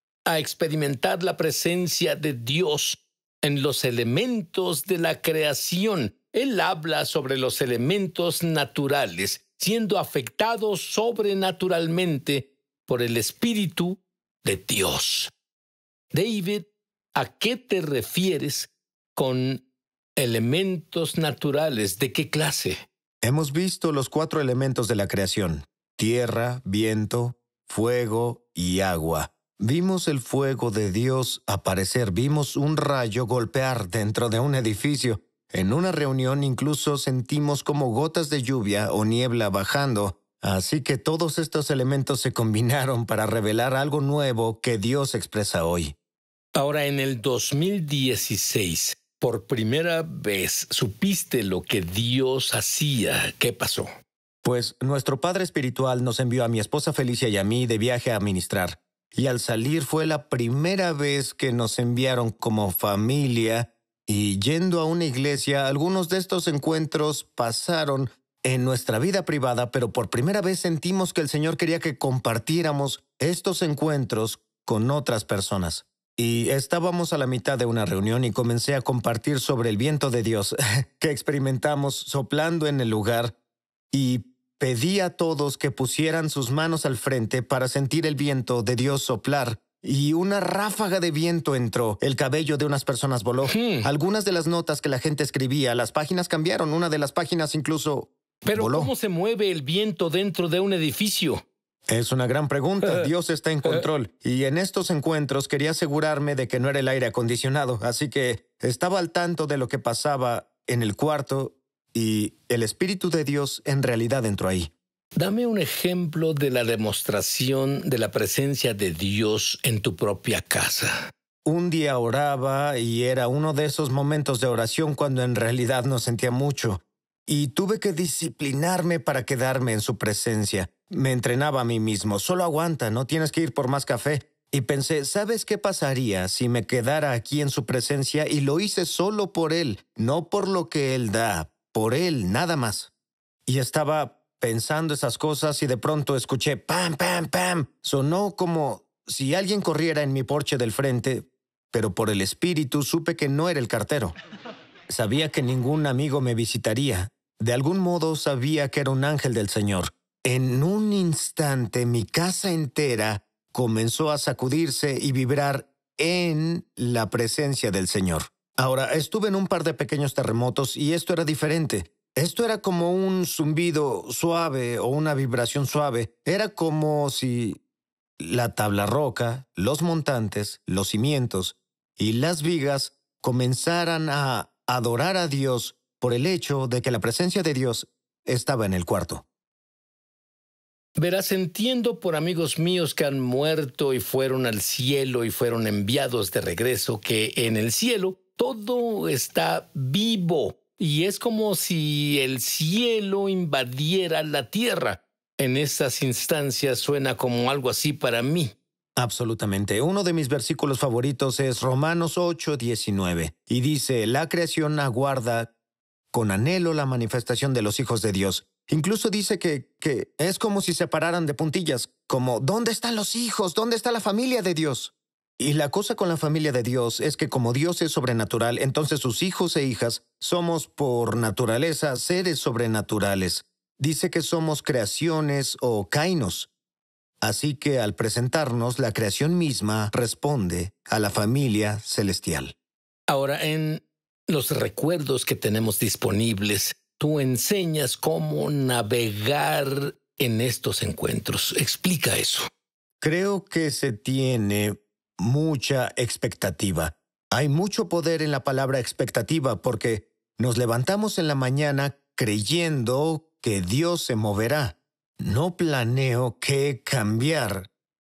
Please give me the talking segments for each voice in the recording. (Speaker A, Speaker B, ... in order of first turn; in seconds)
Speaker A: 0.3-15.3, 16.1-19.6, 20.2-22.9, 46.6-53.9, 93.5-93.9, 98.5-101.5, 102.8-103.1, 115.2-120.9, 191.0-208.6, 243.1-252.5
Speaker B: 23.2-46.0, 54.4-83.4, 83.9-98.9, 101.9-114.7, 121.5-142.9, 143.5-154.2, 154.9-177.6, 178.2-189.2, 209.0-215.5, 216.1-236.5, 237.2-242.6, 253.0-267.7